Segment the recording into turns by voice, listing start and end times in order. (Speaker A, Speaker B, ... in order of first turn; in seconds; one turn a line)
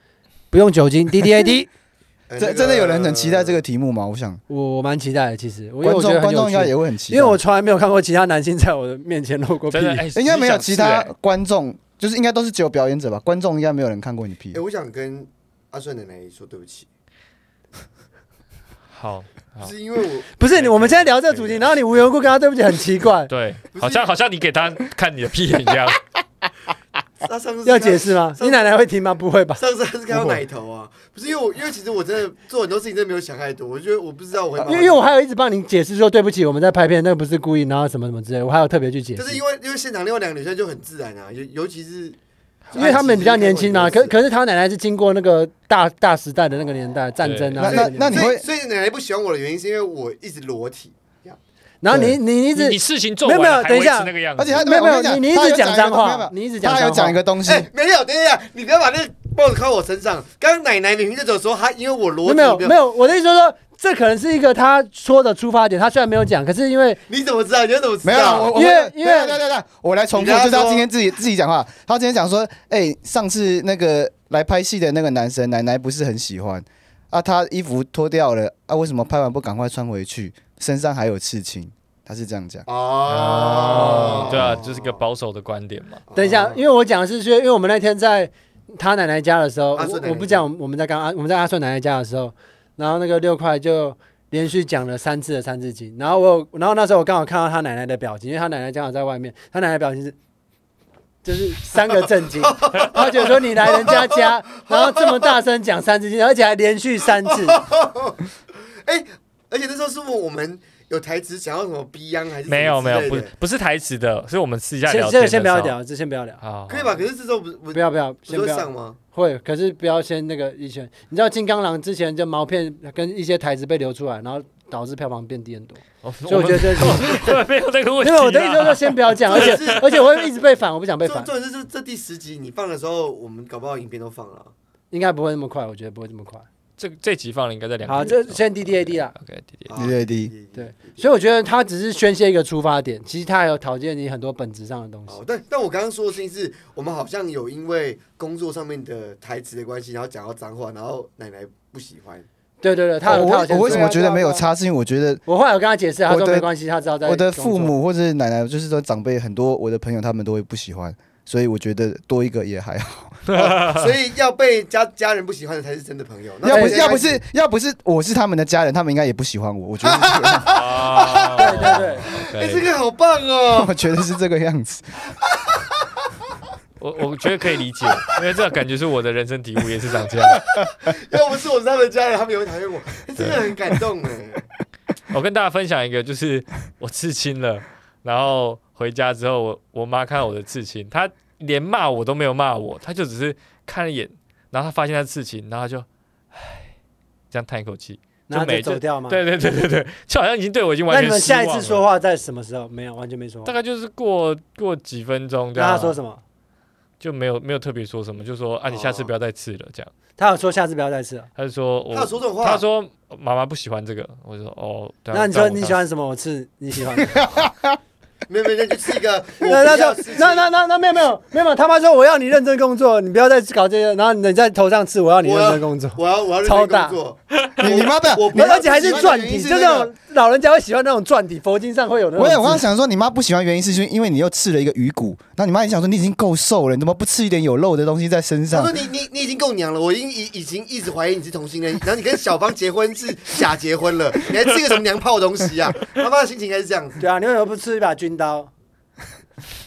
Speaker A: 0.5-1.7
Speaker B: 2.3-3.6
Speaker C: 2.4-4.4
Speaker A: 4.5-10.1
Speaker C: 5.8-7.4
Speaker D: 9.7-11.1
Speaker C: 10.2-14.6
Speaker B: 14.5-16.9
Speaker D: 18.9-19.7
Speaker B: 19.6-20.3
Speaker A: 20.4-23.3
Speaker D: 20.5-21.7
Speaker D: 23.3-26.0
Speaker B: 23.7-24.1
Speaker B: 27.2-28.8
Speaker A: 27.6-29.6
Speaker B: 29.6-35.1
Speaker A: 34.6-39.4
Speaker B: 39.2-42.2
Speaker B: 42.7-44.2
Speaker A: 42.7-48.1
Speaker D: 47.2-47.6
Speaker C: 47.6-48.5
Speaker B: 47.7-51.4
Speaker A: 51.8-57.2
Speaker C: 51.9-52.2
Speaker D: 52.5-54.6
Speaker C: 54.4-57.7
Speaker B: 57.4-62.8
Speaker A: 62.2-67.0
Speaker B: 67.1-68.5
Speaker C: 68.0-82.7
Speaker A: 68.5-69.4
Speaker B: 70.1-70.9
Speaker B: 82.7-85.0
Speaker D: 83.1-86.0
Speaker B: 86.1-86.6
Speaker A: 86.2-100.2
Speaker B: 89.8-90.5
Speaker A: 101.2-107.6
Speaker B: 102.4-105.3
Speaker B: 107.2-108.2
Speaker B: 108.8-113.3
Speaker D: 112.5-115.8
Speaker A: 114.9-116.4
Speaker D: 116.4-117.0
Speaker B: 116.7-119.0
Speaker A: 117.7-127.3
Speaker D: 126.0-129.8
Speaker B: 127.0-127.3
Speaker A: 128.0-131.3
Speaker B: 129.3-130.2
Speaker B: 131.0-134.5
Speaker A: 134.9-136.5
Speaker D: 136.8-139.7
Speaker A: 137.9-139.1
Speaker B: 139.7-141.1
Speaker C: 139.8-140.3
Speaker A: 140.6-145.2
Speaker B: 145.1-152.3
Speaker A: 152.6-154.5
Speaker C: 153.1-155.2
Speaker B: 153.7-153.9
Speaker A: 155.3-157.7
Speaker C: 156.1-156.5
Speaker C: 157.0-163.2
Speaker D: 163.3-163.9
Speaker B: 163.3-167.2
Speaker A: 166.5-167.0
Speaker C: 166.5-170.6
Speaker B: 169.8-173.7
Speaker D: 170.5-172.7
Speaker A: 171.4-172.1
Speaker C: 173.5-174.8
Speaker B: 175.3-176.1
Speaker D: 176.8-180.6
Speaker B: 177.8-178.2
Speaker B: 180.2-184.5
Speaker D: 183.2-183.4
Speaker D: 185.1-195.9
Speaker D: 197.3-201.8
Speaker A: 198.3-199.2
Speaker A: 200.9-203.5
Speaker D: 203.4-206.0
Speaker A: 205.6-206.2
Speaker D: 207.0-209.9
Speaker B: 208.7-209.1
Speaker A: 210.2-211.3
Speaker D: 211.4-215.8
Speaker B: 211.9-212.6
Speaker A: 215.1-217.2
Speaker C: 217.1-217.8
Speaker B: 218.3-220.5
Speaker A: 219.4-227.0
Speaker B: 225.2-229.9
Speaker C: 227.6-229.5
Speaker A: 228.3-232.7
Speaker C: 232.2-238.7
Speaker B: 238.5-247.0
Speaker A: 247.0-248.5